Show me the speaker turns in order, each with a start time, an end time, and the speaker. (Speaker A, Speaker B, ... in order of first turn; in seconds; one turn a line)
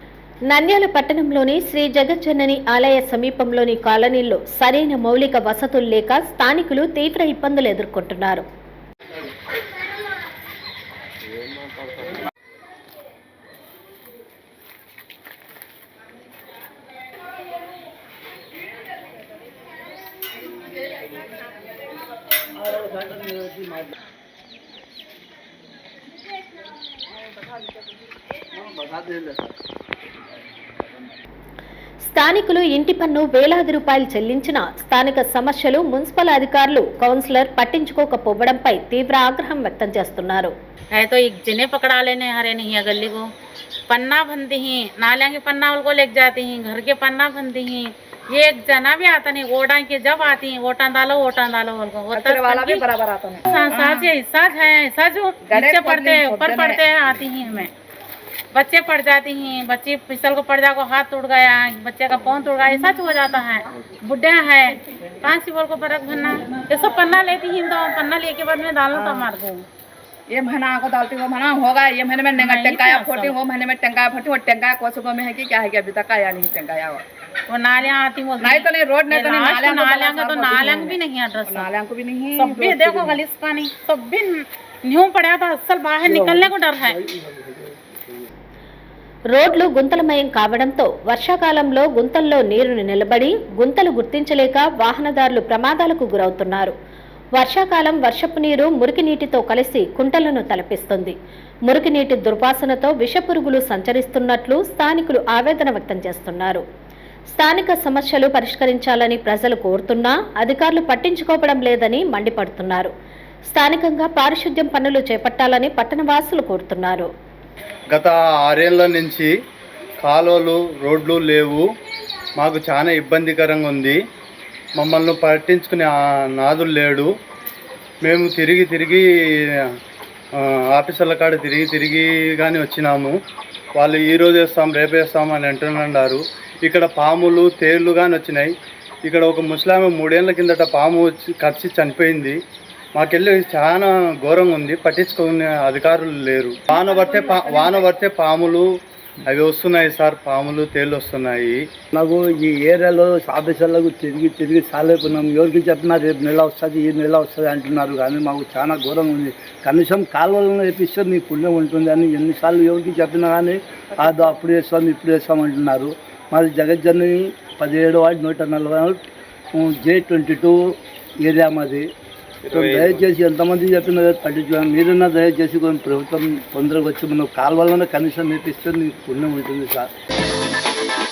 Speaker A: 0.5-8.4
Speaker B: 22.6-23.9
Speaker B: 28.5-29.5
Speaker A: 32.1-40.5
Speaker C: 41.0-43.2
Speaker C: 43.9-52.9
Speaker D: 52.1-54.1
Speaker C: 53.5-57.7
Speaker D: 55.5-56.8
Speaker C: 58.5-69.6
Speaker D: 68.9-69.3
Speaker D: 70.3-77.0
Speaker C: 72.4-73.4
Speaker C: 77.5-81.7
Speaker D: 78.4-83.2
Speaker C: 82.4-87.0
Speaker B: 86.0-88.3
Speaker A: 89.3-96.7
Speaker A: 97.4-101.2
Speaker A: 101.7-106.6
Speaker A: 107.3-112.9
Speaker A: 113.5-117.1
Speaker E: 117.9-119.3
Speaker E: 120.0-121.7
Speaker E: 122.4-124.0
Speaker E: 124.8-127.1
Speaker E: 128.0-129.0
Speaker E: 130.7-133.2
Speaker E: 133.8-138.5
Speaker E: 139.1-142.4
Speaker E: 142.9-148.7
Speaker D: 146.8-147.7
Speaker E: 149.2-151.6
Speaker B: 151.9-169.0
Speaker B: 169.5-171.9
Speaker E: 172.4-173.0
Speaker B: 172.5-179.9